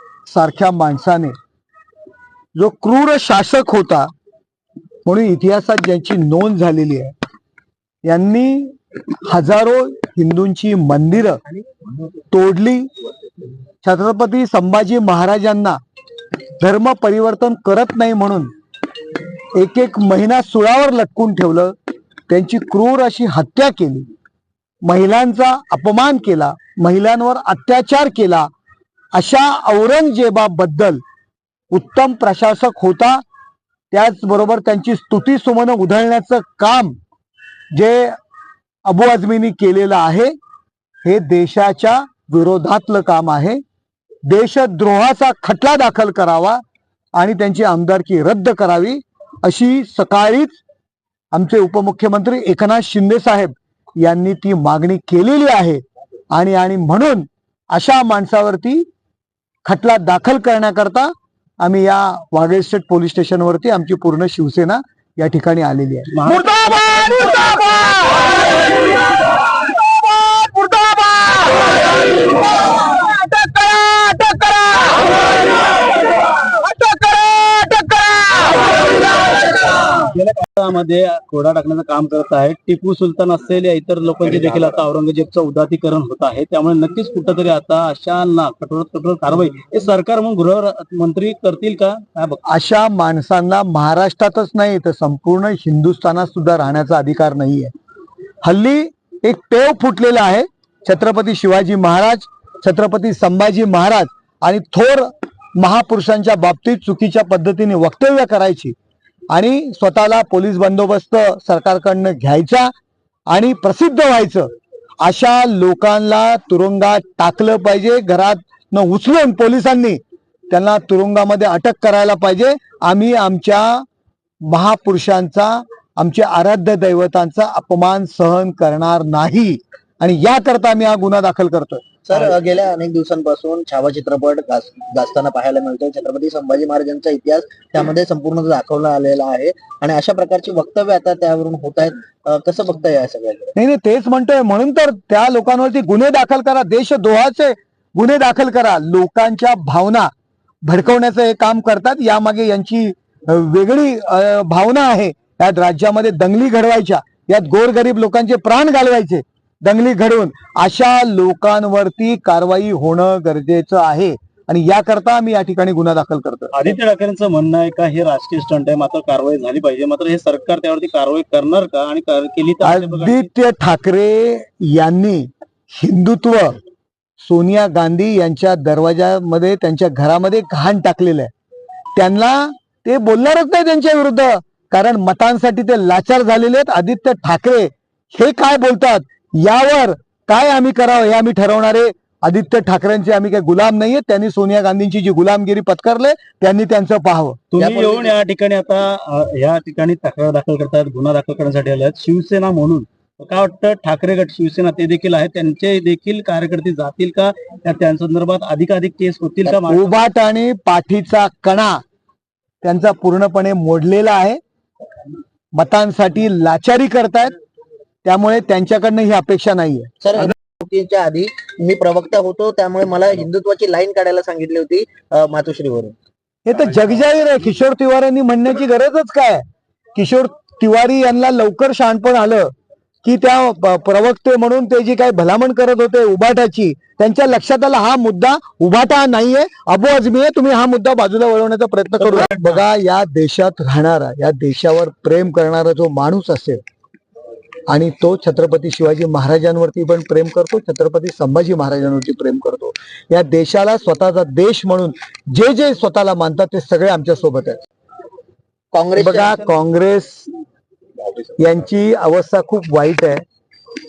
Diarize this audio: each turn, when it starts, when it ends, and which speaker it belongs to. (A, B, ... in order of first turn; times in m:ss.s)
0:00.3-0:01.3 A
0:02.6-0:04.1 A
0:05.1-0:07.1 A
0:08.0-0:08.7 A
0:09.2-0:11.4 A
0:12.3-0:12.9 A
0:13.8-0:15.8 A
0:16.6-0:18.5 A
0:19.5-0:21.8 A
0:22.3-0:24.1 A
0:24.8-0:28.5 A
0:29.1-0:31.0 A
0:31.7-0:33.2 A
0:33.9-0:37.0 A
0:37.7-0:38.2 A
0:38.8-0:40.3 A
0:41.0-0:43.6 A
0:44.3-0:46.6 A
0:47.2-0:50.6 A
0:51.3-0:58.8 A
0:59.6-1:08.3 A
1:06.1-1:07.5 B
1:09.4-1:15.1 A
1:16.4-1:18.6 A
1:20.0-1:32.4 B
1:32.5-1:37.7 A
1:38.4-1:48.7 A
1:49.3-1:52.7 A
1:53.3-1:54.5 A
1:55.0-2:03.8 A
2:04.5-2:11.8 A
2:12.1-2:23.5 C
2:23.6-2:30.1 A
2:30.6-2:46.6 A
2:46.5-2:53.3 B
2:52.6-2:56.6 A
2:57.2-3:01.3 A
3:02.0-3:17.4 A
3:17.5-3:30.0 B
3:17.6-3:18.2 C
3:29.6-3:31.8 A
3:32.6-3:34.4 A
3:35.6-3:37.4 A
3:38.0-3:39.9 A
3:40.0-3:46.0 C
3:46.5-3:49.4 A
3:50.0-3:52.5 A
3:53.0-4:06.6 A
4:02.0-4:02.6 B
4:07.7-4:17.6 A
4:18.7-4:19.5 C
4:19.0-4:20.3 A
4:21.4-4:23.2 A